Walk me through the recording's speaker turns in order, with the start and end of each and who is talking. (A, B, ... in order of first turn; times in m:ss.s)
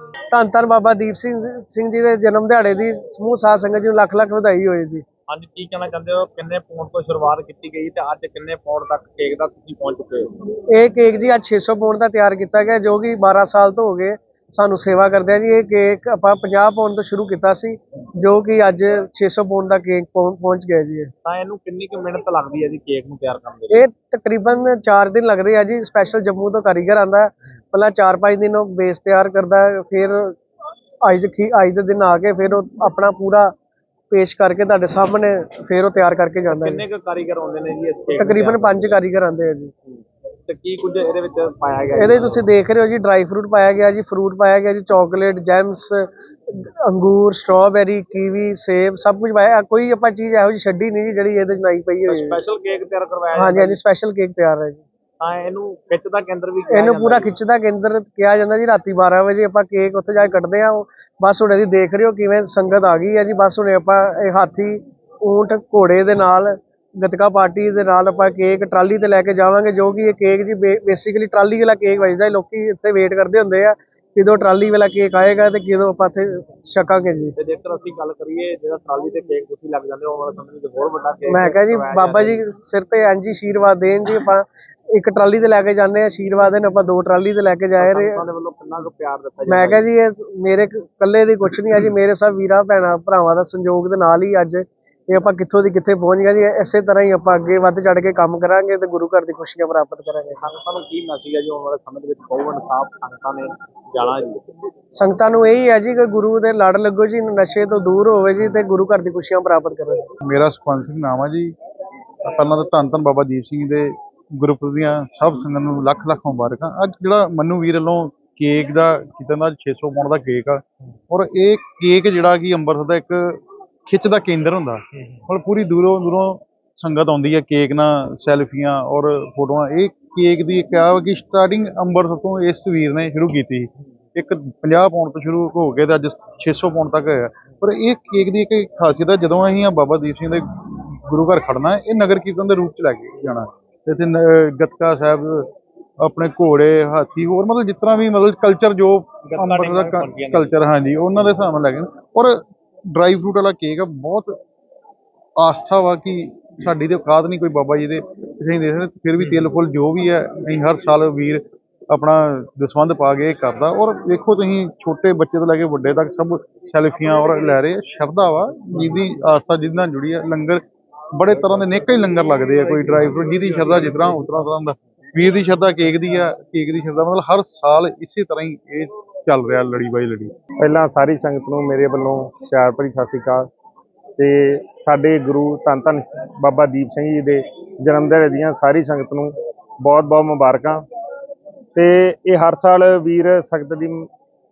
0:00.3-0:05.0 A
0:05.3-0:10.3 B
0:10.7-0:21.1 A
0:21.2-0:23.9 B
0:23.7-0:30.4 A
0:31.0-0:33.5 A
0:34.1-0:36.9 A
0:36.5-0:39.0 B
0:38.2-0:39.7 A
0:39.9-0:42.5 B
0:41.9-0:52.4 A
0:52.1-0:53.8 B
0:53.4-0:54.8 A
0:55.2-0:57.3 B
0:56.7-1:17.4 A
1:17.4-1:22.4 B
1:21.3-1:28.2 A
1:27.8-1:29.9 B
1:29.5-1:40.4 A
1:40.4-1:44.4 B
1:45.0-1:50.1 A
1:50.2-1:51.5 C
1:52.2-2:32.4 C
2:29.3-2:30.6 B
2:33.0-2:34.4 C
2:35.4-2:50.6 C
2:51.2-3:00.3 C
2:53.2-2:54.1 B
3:00.6-3:03.5 D
3:04.2-3:10.8 D
3:11.8-3:14.1 D